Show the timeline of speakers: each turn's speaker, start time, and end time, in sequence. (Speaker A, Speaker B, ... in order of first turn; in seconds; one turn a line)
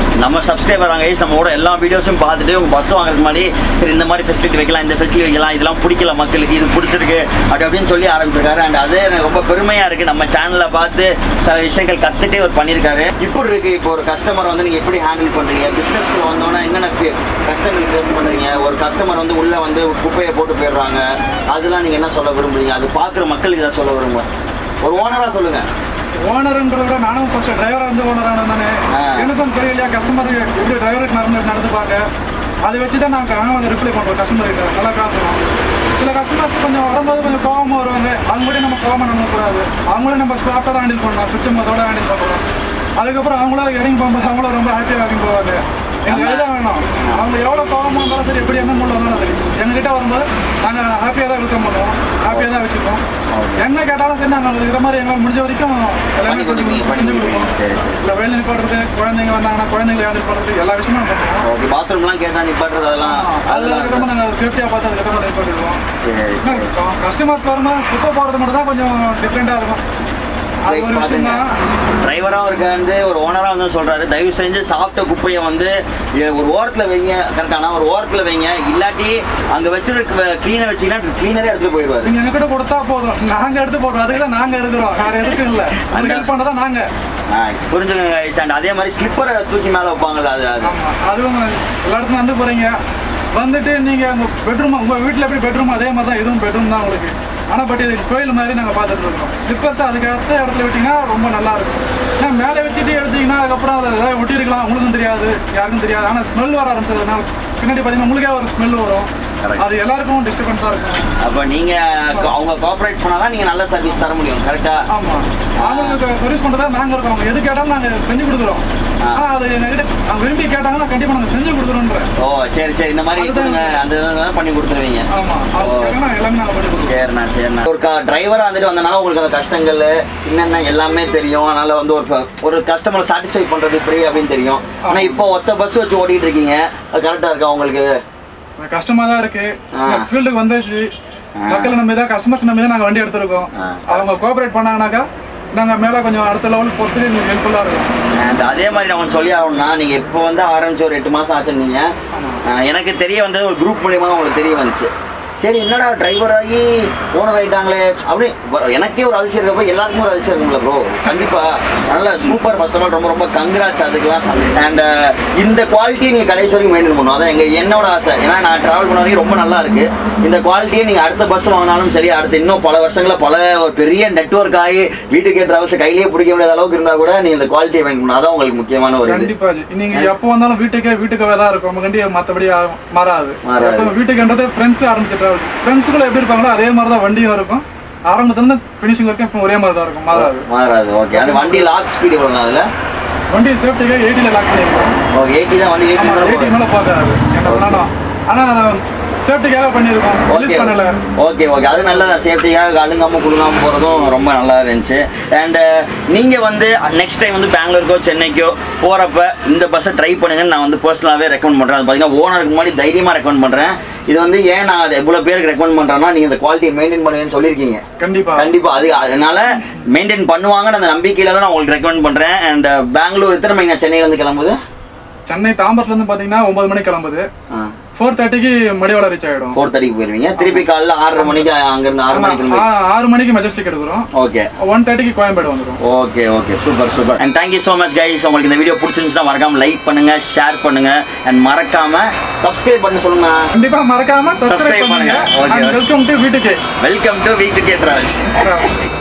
Speaker A: 0.2-24.3
Speaker A: 24.8-25.6
Speaker B: 24.9-25.4
Speaker B: 26.2-32.0
Speaker A: 28.9-29.3
Speaker B: 32.6-35.4
Speaker B: 36.0-42.4
Speaker B: 43.0-53.0
Speaker A: 46.1-47.2
Speaker A: 52.3-52.6
Speaker A: 53.3-53.7
Speaker B: 53.6-61.4
Speaker A: 56.2-58.0
Speaker A: 61.4-64.1
Speaker B: 63.0-65.8
Speaker A: 66.0-66.7
Speaker B: 66.4-69.8
Speaker B: 70.7-71.5
Speaker A: 70.7-71.4
Speaker A: 72.0-82.1
Speaker B: 82.0-86.9
Speaker A: 85.1-86.3
Speaker A: 87.3-90.7
Speaker B: 90.6-92.7
Speaker B: 93.3-109.1
Speaker A: 109.4-109.7
Speaker B: 109.6-111.1
Speaker A: 111.2-114.8
Speaker B: 114.9-118.6
Speaker A: 115.6-116.0
Speaker B: 119.1-122.1
Speaker A: 122.2-125.0
Speaker B: 123.2-123.8
Speaker B: 125.1-127.0
Speaker A: 125.6-126.0
Speaker A: 126.8-137.9
Speaker B: 134.8-135.2
Speaker B: 138.6-140.9
Speaker A: 139.7-140.1
Speaker A: 141.4-141.8
Speaker B: 141.5-147.9
Speaker A: 143.5-144.1
Speaker A: 148.1-151.9
Speaker B: 152.1-152.4
Speaker A: 152.4-179.3
Speaker B: 161.0-161.3
Speaker B: 179.1-190.5
Speaker A: 183.4-183.9
Speaker A: 190.1-192.7
Speaker B: 191.1-191.7
Speaker B: 193.3-195.0
Speaker A: 195.1-196.5
Speaker B: 196.0-201.0
Speaker A: 197.4-197.8
Speaker A: 200.3-217.8
Speaker B: 218.0-218.5
Speaker A: 218.3-224.6
Speaker B: 225.3-227.3
Speaker A: 227.5-227.7
Speaker B: 228.0-229.6
Speaker A: 229.5-232.7
Speaker B: 230.4-230.7
Speaker B: 231.2-231.5
Speaker B: 232.1-234.1
Speaker A: 234.1-234.5
Speaker B: 234.6-235.8
Speaker A: 235.8-243.5
Speaker B: 243.5-246.6
Speaker A: 244.4-245.8
Speaker A: 246.8-248.7
Speaker B: 248.4-248.7